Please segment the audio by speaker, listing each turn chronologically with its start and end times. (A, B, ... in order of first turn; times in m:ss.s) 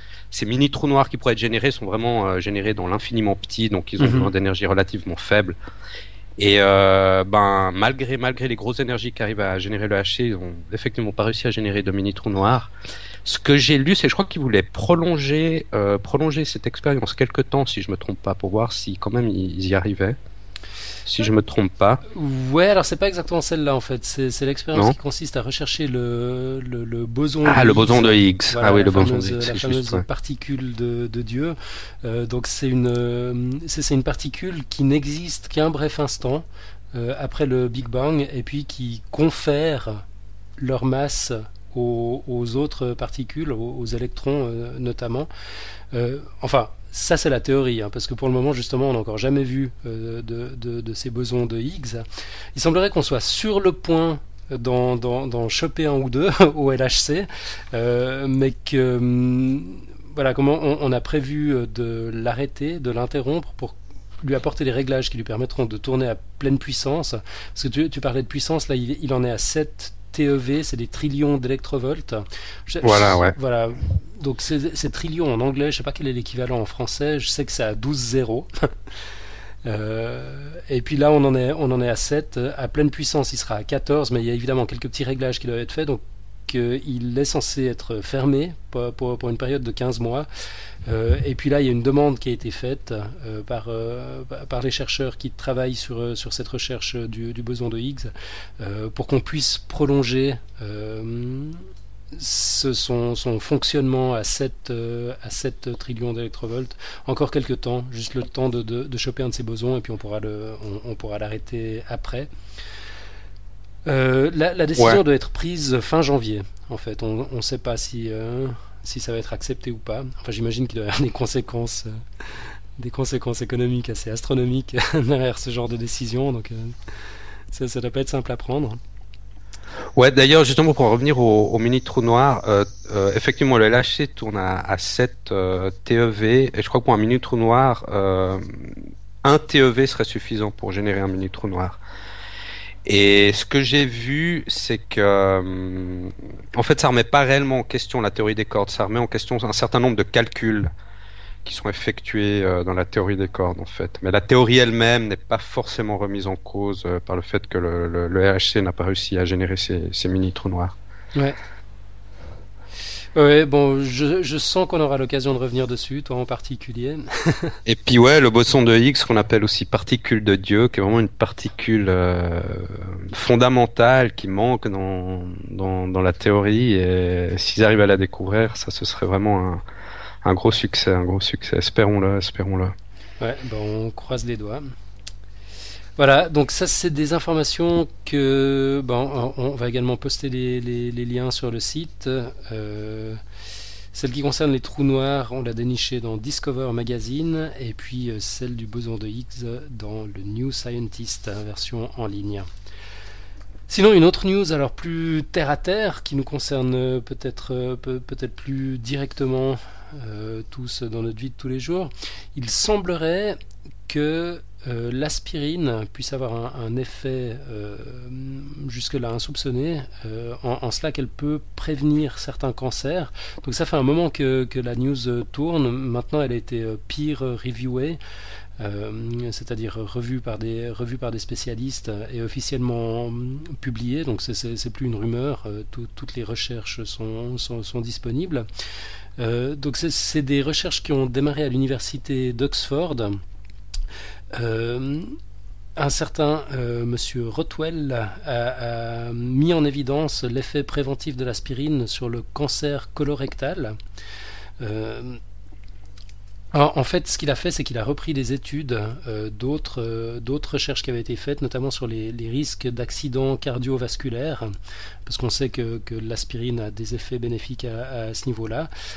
0:00.3-0:05.6 A
0:04.0-0:04.3 B
0:06.4-0:12.7 A
0:13.2-0:20.2 A
0:21.1-0:22.0 A
0:22.1-0:40.0 B
0:27.4-0:30.0 A
0:40.6-0:45.3 B
0:45.9-0:52.0 B
0:52.6-1:18.5 B
1:12.8-1:13.4 A
1:19.6-1:30.3 B
1:30.9-1:41.6 B
1:42.1-1:52.3 B
1:53.9-2:01.9 B
2:02.8-2:06.7 B
2:07.5-2:08.8 B
2:10.0-2:21.8 A
2:22.9-2:30.7 A
2:31.4-2:40.8 A
2:43.2-2:47.6 B
2:47.7-2:59.6 A
3:00.2-3:02.7 A
3:03.2-3:04.7 B
3:06.0-3:13.2 B
3:13.9-3:22.5 B
3:23.7-3:48.0 B
3:48.6-3:58.4 B
3:59.2-4:03.2 B
4:04.3-4:05.2 B
4:05.8-4:13.8 B
4:14.6-4:15.2 B
4:16.5-4:24.5 B
4:25.1-4:28.7 B